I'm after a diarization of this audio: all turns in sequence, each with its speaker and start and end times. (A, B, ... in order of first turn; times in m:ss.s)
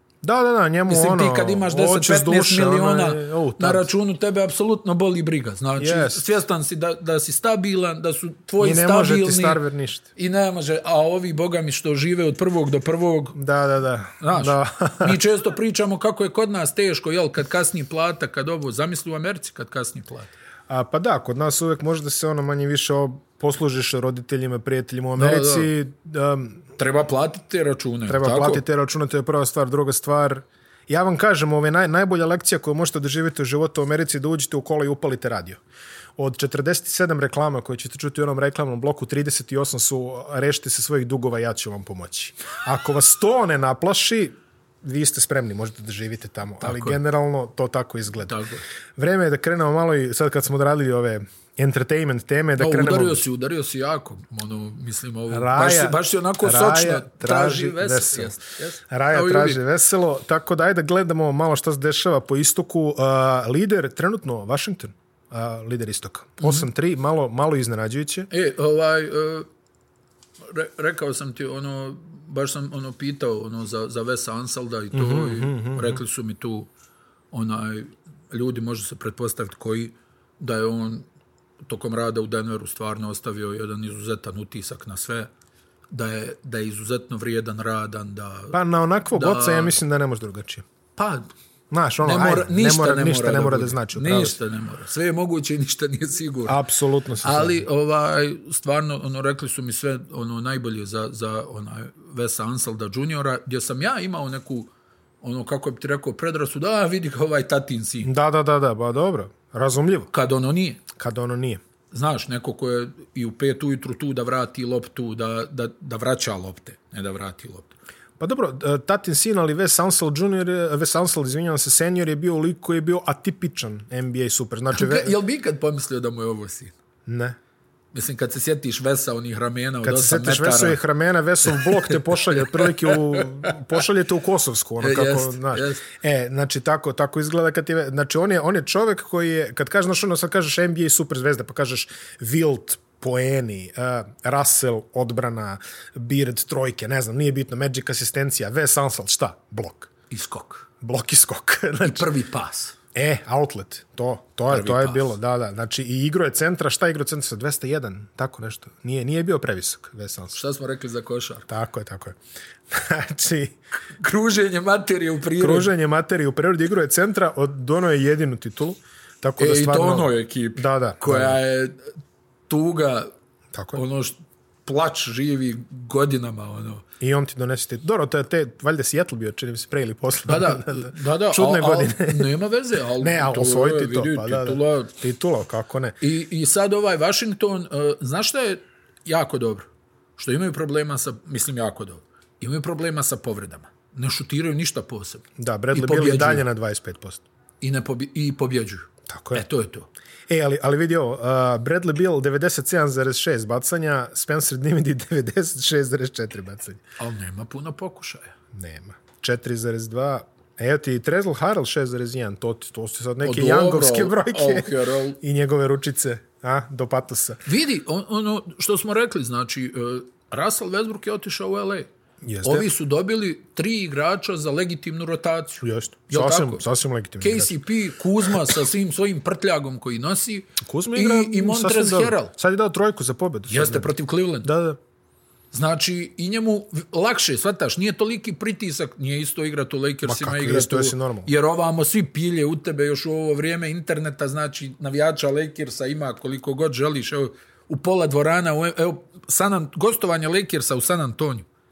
0:00.2-0:03.9 A
0:00.9-0:09.6 B
0:05.8-0:06.3 A
0:08.6-0:10.0 A
0:10.2-0:13.4 B
0:13.3-0:15.2 A
0:14.2-0:20.3 B
0:20.7-0:26.6 A
0:25.2-0:25.7 B
0:26.8-0:28.6 B
0:28.1-0:35.6 A
0:36.2-0:48.4 A
0:46.6-0:47.0 B
0:48.2-0:48.6 B
0:49.0-0:53.2 A
0:52.6-0:59.6 B
0:55.3-0:58.3 A
0:58.9-1:08.3 A
1:08.3-1:09.5 B
1:10.5-1:16.7 B
1:14.9-1:16.0 A
1:17.3-1:21.0 B
1:21.6-1:25.3 B
1:25.9-1:28.5 B
1:28.5-1:30.6 A
1:29.1-1:29.8 B
1:31.0-1:31.3 B
1:31.7-1:34.4 A
1:32.0-1:36.6 B
1:36.4-1:37.6 A
1:37.2-1:44.7 B
1:45.2-1:48.1 B
1:48.0-1:50.1 A
1:50.1-1:50.8 B
1:51.0-1:51.6 A
1:51.9-1:57.7 B
1:58.2-2:05.1 A
2:04.7-2:06.7 B
2:07.0-2:07.4 A
2:07.9-2:10.8 B
2:09.8-2:29.9 A
2:11.5-2:13.5 B
2:14.8-2:15.8 B
2:30.1-2:30.7 B
2:30.8-2:32.1 A
2:31.8-2:32.8 B
2:32.9-2:40.4 A
2:34.5-2:35.1 B
2:40.3-2:41.5 B
2:41.5-2:42.2 A
2:42.7-2:43.6 A
2:44.0-2:45.7 B
2:45.4-2:51.4 A
2:49.4-2:51.9 B
2:52.5-2:53.1 B
2:53.5-2:53.8 A
2:53.7-2:56.8 B
2:57.0-3:02.3 A
3:00.3-3:04.9 B
3:03.0-3:06.0 A
3:06.0-3:16.4 B
3:15.4-3:17.2 A
3:17.6-3:19.9 B
3:19.1-3:19.4 A
3:20.3-3:26.8 A
3:27.0-3:28.3 B
3:28.5-3:37.4 A
3:33.2-3:35.2 B
3:37.4-3:41.9 B
3:42.2-3:42.6 A
3:42.4-3:46.6 B
3:45.6-3:47.6 A
3:47.2-3:52.3 B
3:50.6-3:53.9 A
3:53.5-3:54.5 B
3:54.4-3:54.8 A
3:55.5-4:11.5 B
4:00.0-4:01.3 A